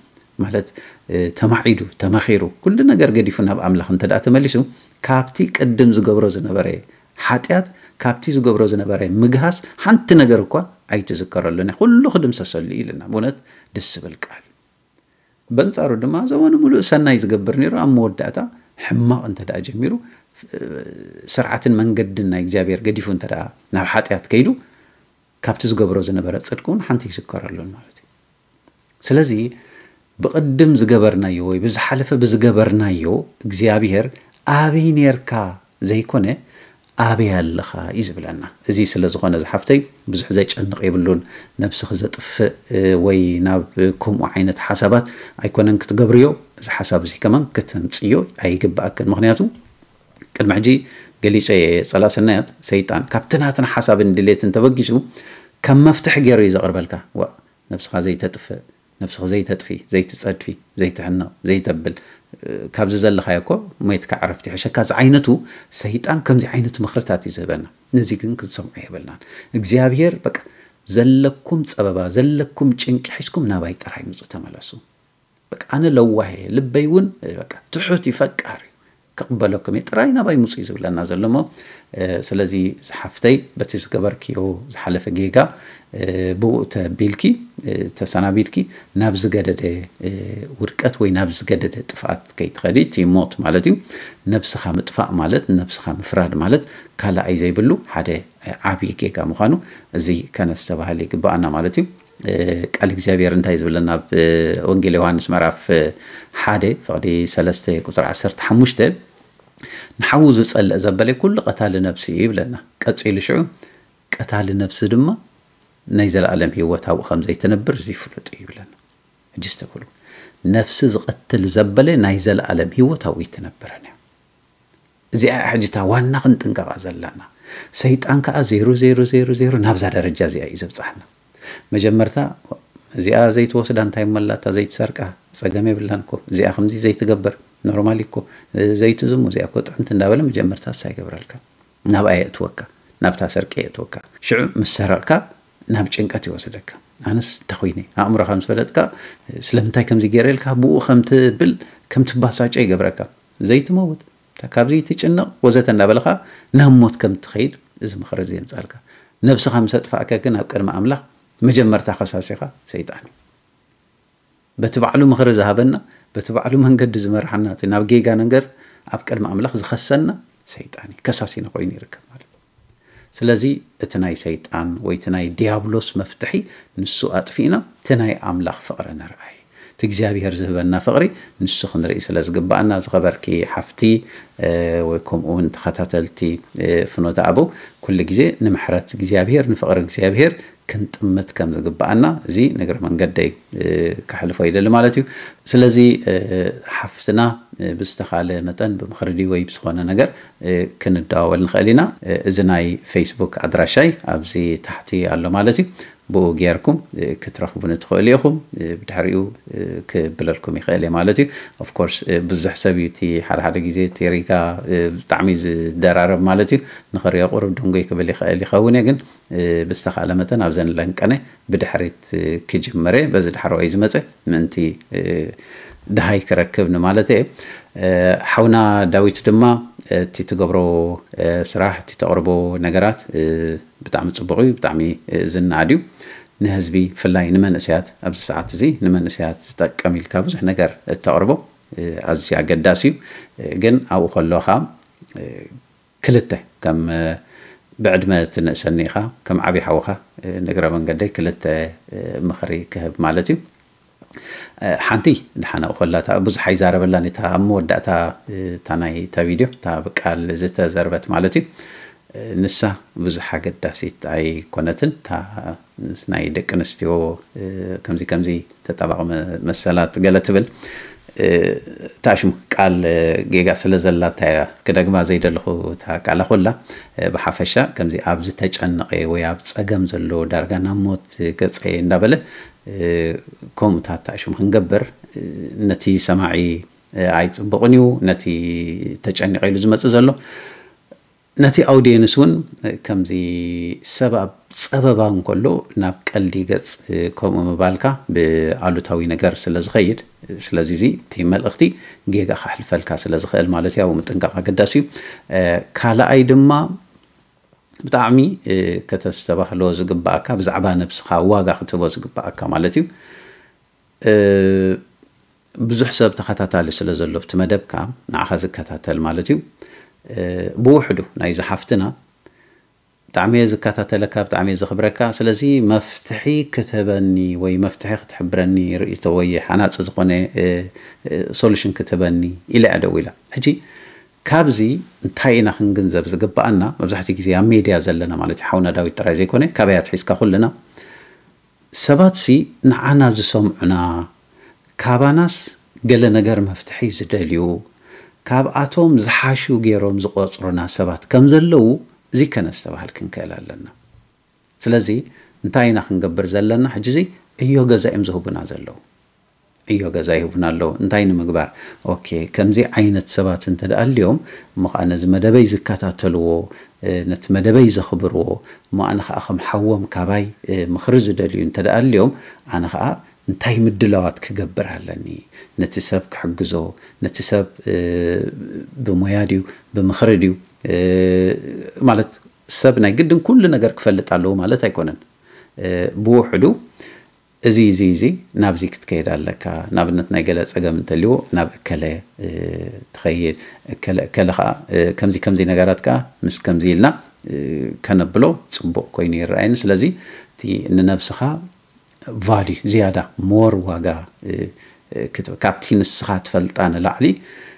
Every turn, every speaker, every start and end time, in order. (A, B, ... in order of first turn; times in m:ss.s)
0:00.4-0:14.5 A
0:15.6-0:24.6 A
0:25.4-0:28.0 A
0:29.0-0:29.5 A
0:30.2-0:36.4 A
0:37.0-0:49.5 A
0:50.4-0:55.0 A
0:55.6-1:14.8 A
1:15.5-1:21.5 A
1:22.0-1:49.0 A
1:50.0-1:53.5 A
1:54.2-1:55.2 A
1:56.0-1:58.7 A
1:59.4-1:59.9 A
2:00.5-2:04.0 A
2:05.2-2:11.1 A
2:11.7-2:43.1 A
2:44.6-2:52.3 A
2:53.2-3:45.4 A
3:45.9-3:55.8 A
3:56.4-4:05.5 A
4:06.0-4:07.2 A
4:07.8-4:13.4 A
4:14.7-4:21.4 A
4:22.2-4:30.5 A
4:31.2-4:50.2 A
4:51.4-5:06.6 A
5:07.8-5:12.9 A
5:14.1-5:14.8 A
5:15.6-5:19.4 A
5:20.1-5:21.9 A
5:23.2-5:33.6 A
5:34.3-5:40.5 A
5:41.8-5:44.1 A
5:44.8-5:47.6 A
5:48.3-5:53.7 A
5:54.6-5:58.8 A
5:59.7-6:25.0 A
6:25.6-6:26.6 A
6:27.5-6:41.4 A
6:42.1-6:47.2 A